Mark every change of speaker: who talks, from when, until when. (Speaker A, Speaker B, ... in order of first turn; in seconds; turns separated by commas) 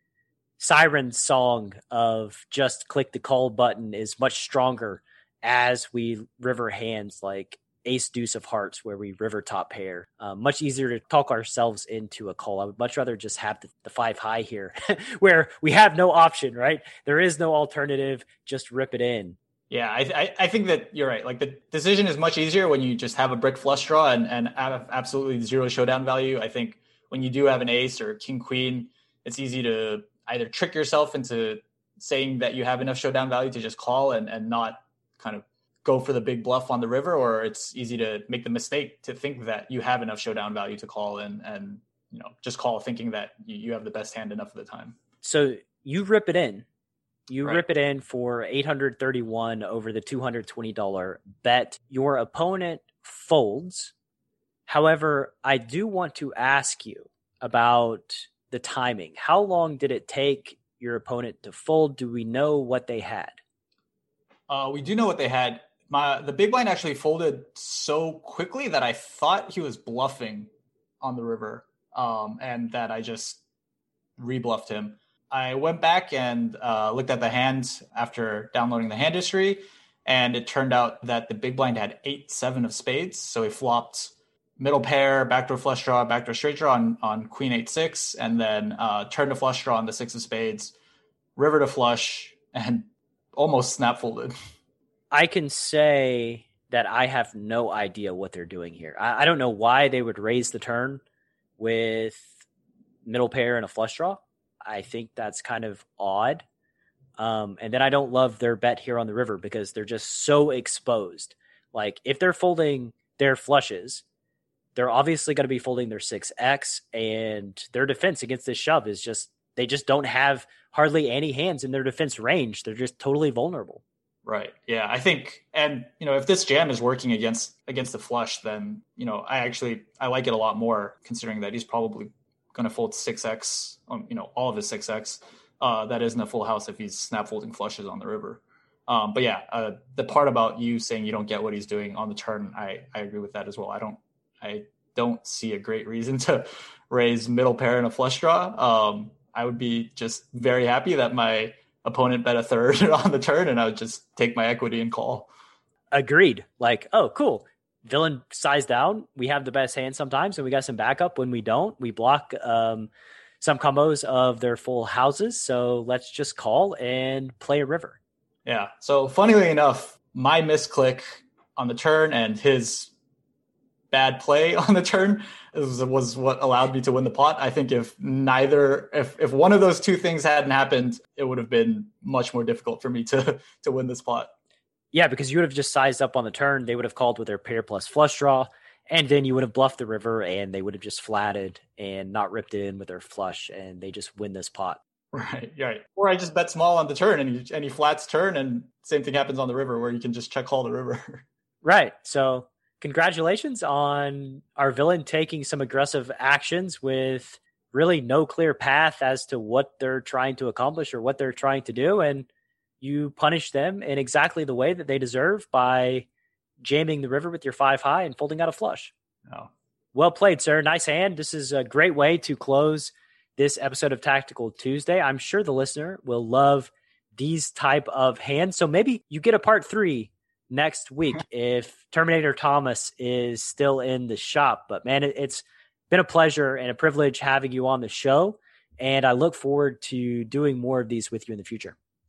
Speaker A: 0.6-19.4, Speaker B: 19.7-45.0, Speaker A: 45.2-46.6, Speaker A: 47.3-53.9, Speaker A: 54.7-63.4, Speaker B: 64.5-70.5, Speaker B: 71.0-73.4, Speaker B: 74.2-90.7, Speaker B: 91.3-94.3, Speaker A: 95.1-101.0, Speaker A: 101.6-102.4, Speaker A: 103.0-106.4, Speaker A: 107.2-114.0, Speaker A: 114.7-123.8, Speaker B: 124.2-155.3, Speaker A: 155.9-162.9, Speaker A: 163.4-168.0, Speaker B: 168.4-172.9, Speaker B: 173.9-184.3, Speaker A: 184.9-194.8, Speaker B: 195.1-201.2, Speaker A: 201.6-212.3, Speaker A: 212.8-216.1, Speaker A: 216.6-218.9, Speaker A: 219.9-241.8